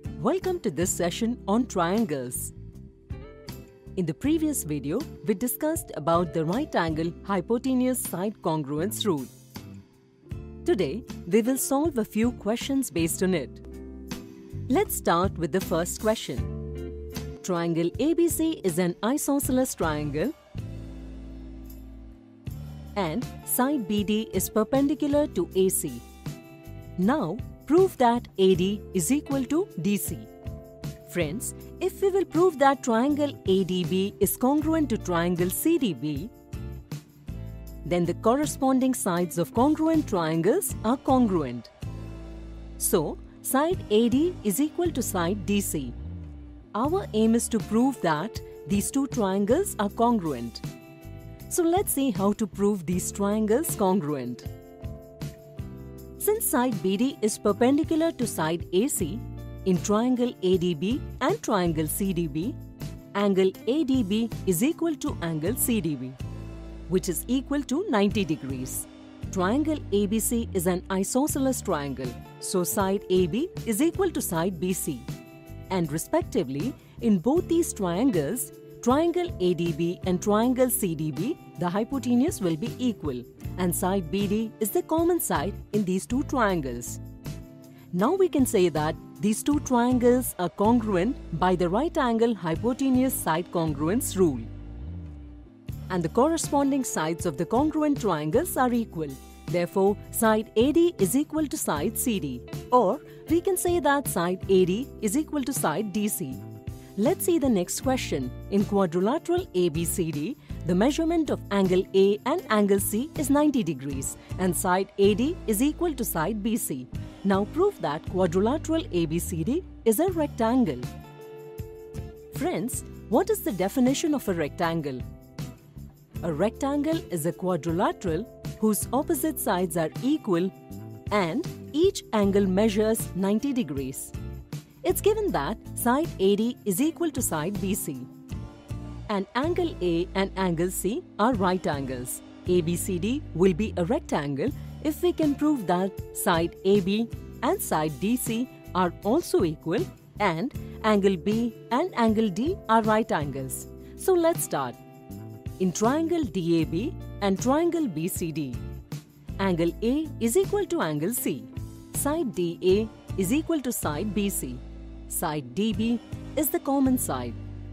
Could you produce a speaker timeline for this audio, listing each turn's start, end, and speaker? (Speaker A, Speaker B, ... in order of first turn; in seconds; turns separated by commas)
Speaker A: 0.2-2.5, Speaker A: 4.0-9.3, Speaker A: 10.6-13.6, Speaker A: 14.7-16.6, Speaker A: 17.4-20.3, Speaker A: 22.9-26.1, Speaker A: 27.0-30.3, Speaker A: 31.1-36.3, Speaker A: 37.8-41.7, Speaker A: 42.8-46.0, Speaker A: 46.7-50.6, Speaker A: 51.5-54.5, Speaker A: 56.2-62.6, Speaker A: 63.1-66.2, Speaker A: 66.9-75.1, Speaker A: 75.7-87.0, Speaker A: 87.9-94.5, Speaker A: 95.9-106.4, Speaker A: 107.0-120.9, Speaker A: 122.3-125.0, Speaker A: 126.2-130.5, Speaker A: 131.1-134.1, Speaker A: 134.8-138.1, Speaker A: 139.1-154.8, Speaker A: 155.6-158.6, Speaker A: 159.4-167.4